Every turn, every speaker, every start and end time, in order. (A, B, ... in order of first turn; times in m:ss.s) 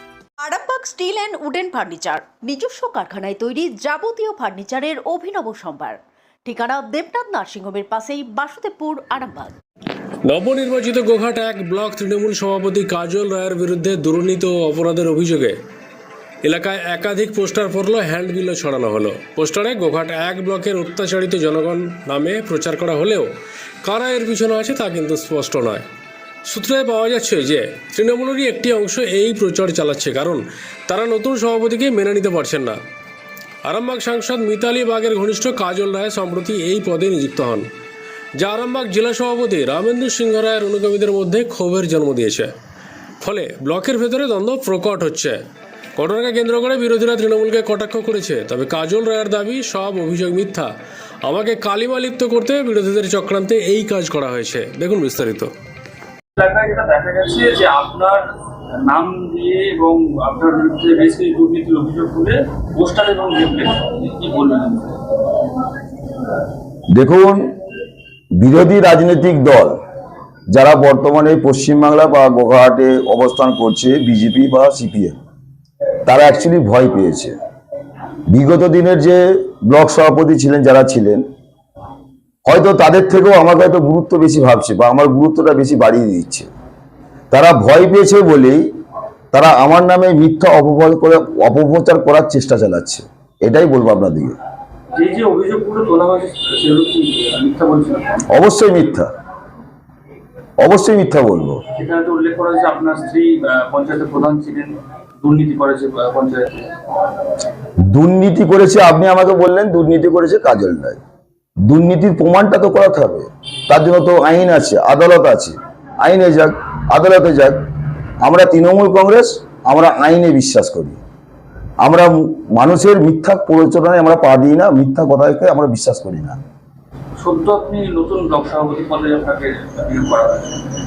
0:00.4-0:09.5 A
0:10.2-0:15.6 B
0:16.4-0:23.3 B
0:23.8-0:25.8 B
0:26.5-0:32.8 B
0:33.6-0:37.6 B
0:38.4-0:42.5 B
0:43.2-0:45.4 B
0:46.0-0:50.7 B
0:51.2-0:55.5 B
0:56.4-0:58.2 C
0:58.8-1:05.1 C
1:06.9-1:07.5 D
1:08.4-1:09.8 D
1:10.5-1:15.2 D
1:16.0-1:17.4 D
1:18.3-1:21.2 D
1:22.4-1:26.5 D
1:27.3-1:28.6 D
1:29.3-1:34.4 D
1:34.9-1:38.2 C
1:38.3-1:39.1 D
1:40.6-1:41.6 D
1:41.8-1:46.7 C
1:47.9-1:51.0 D
1:51.7-1:57.6 D
1:58.2-2:01.0 D
2:01.8-2:06.4 D
2:07.2-2:10.6 C